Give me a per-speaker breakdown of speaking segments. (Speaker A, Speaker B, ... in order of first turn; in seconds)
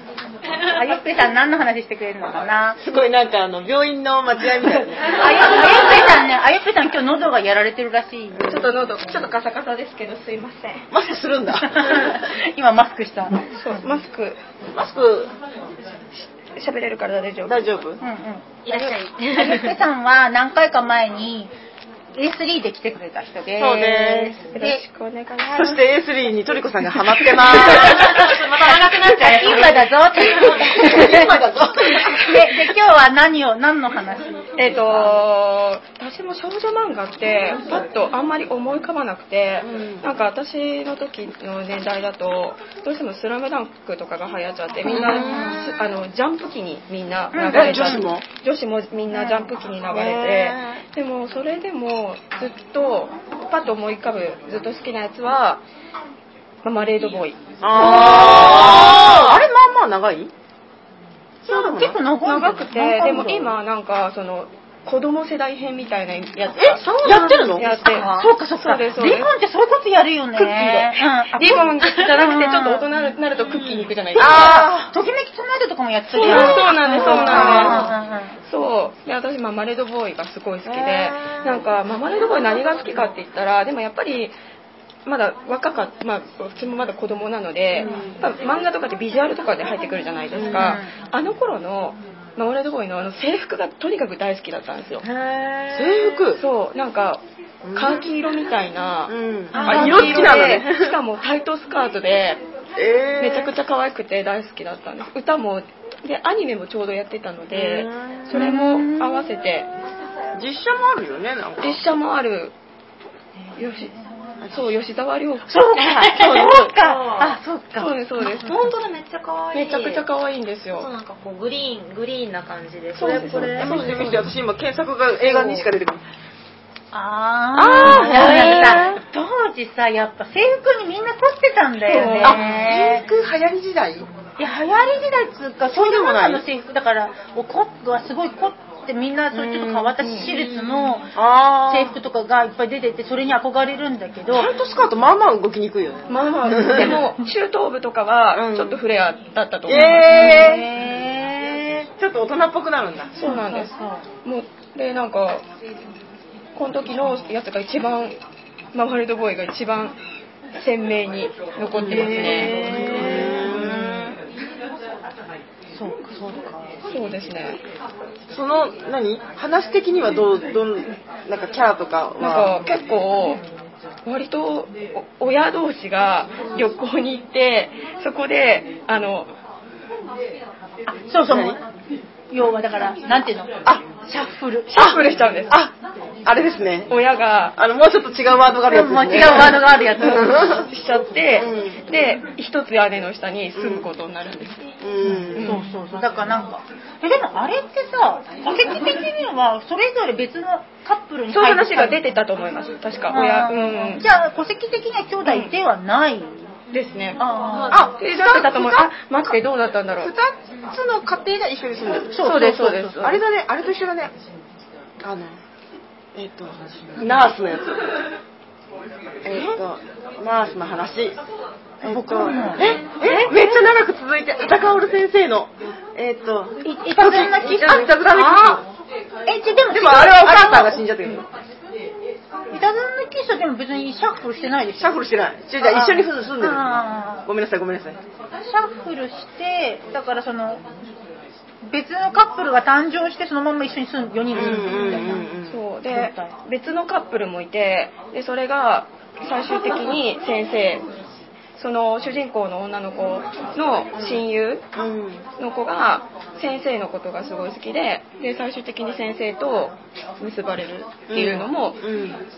Speaker A: 0.7-2.8, 5.0-8.7, 11.6-13.8, 18.0-21.5, 22.1-24.8, 29.1-31.5, 32.0-35.1, 45.3-45.6, 47.3-48.1, 57.8-58.7, 61.5-63.5, 67.8-72.8, 74.2-78.4, 90.4-90.9, 99.5-100.3, 108.3-109.3, 113.4-114.0, 115.5-118.5, 126.9-133.0, 134.4-141.1, 141.7-144.5, 149.8-151.7, 153.2-154.1, 161.8-164.1, 165.7-166.8, 180.9-181.6, 182.3-185.0, 188.7-190.6, 195.0-202.0, 203.1-206.5, 207.2-207.9, 212.1-213.2, 221.8-223.6, 226.6-228.6, 229.3-230.8, 232.5-235.0, 235.6-237.3, 238.4-240.6, 241.7-245.3, 245.9-246.3
Speaker B: 2.8-5.8, 8.3-8.6, 10.9-12.2, 14.7-15.3, 17.4-18.0, 23.6-24.4, 25.5-28.4, 29.4-29.7, 30.2-32.5, 39.6-40.1, 44.9-45.7, 47.5-48.2, 49.9-50.8, 57.6-60.3, 61.4-62.0, 66.5-68.0, 74.2-74.9, 76.2-77.9, 80.7-81.7, 87.8-88.2, 90.3-90.8, 95.7-96.4, 97.6-98.0, 99.1-101.0, 102.8-103.5, 107.5-108.4, 110.3-111.9, 123.6-126.0, 127.5-129.0, 132.2-134.1, 135.7-136.4, 139.3-139.9, 141.1-141.9, 144.3-147.0, 148.3-148.8, 149.7-150.7, 151.8-153.1, 161.7-164.2, 168.3-172.6, 181.2-181.6, 184.8-185.7, 186.2-186.9, 187.5-190.7, 191.4-191.8, 193.6-193.9, 194.8-195.6, 207.7-208.9, 210.0-212.3, 212.9-214.1, 215.0-215.4, 216.2-217.8, 219.2-221.2, 221.8-228.6, 229.7-231.3, 234.8-238.0, 244.3-245.6, 254.0-254.2, 254.7-255.3, 261.1-262.2
Speaker C: 8.4-10.9, 13.5-14.4, 16.6-17.6, 24.3-25.9, 34.6-55.6, 56.6-59.2, 62.2-69.3, 70.3-74.7, 76.1-84.4, 85.0-95.1, 96.3-97.2, 97.7-102.4, 103.2-109.7, 111.6-112.5, 113.6-115.6, 116.1-116.7, 117.8-118.7, 119.5-120.9, 122.9-124.3, 127.8-128.9, 131.8-132.5, 140.0-140.3, 146.1-150.6, 153.1-155.4, 156.6-158.2, 158.7-160.0, 160.6-163.3, 166.9-167.6, 172.2-173.4, 174.1-179.3, 184.7-185.6, 186.9-187.6, 190.1-194.8, 195.3-195.7, 201.3-204.1, 205.2-205.5, 206.7-210.1, 212.2-213.2, 245.4-250.9, 251.6-254.7, 255.4-261.9
Speaker D: 18.6-19.8, 27.4-31.0, 58.0-59.2, 95.0-96.0, 115.9-117.3, 118.4-120.1, 120.8-124.0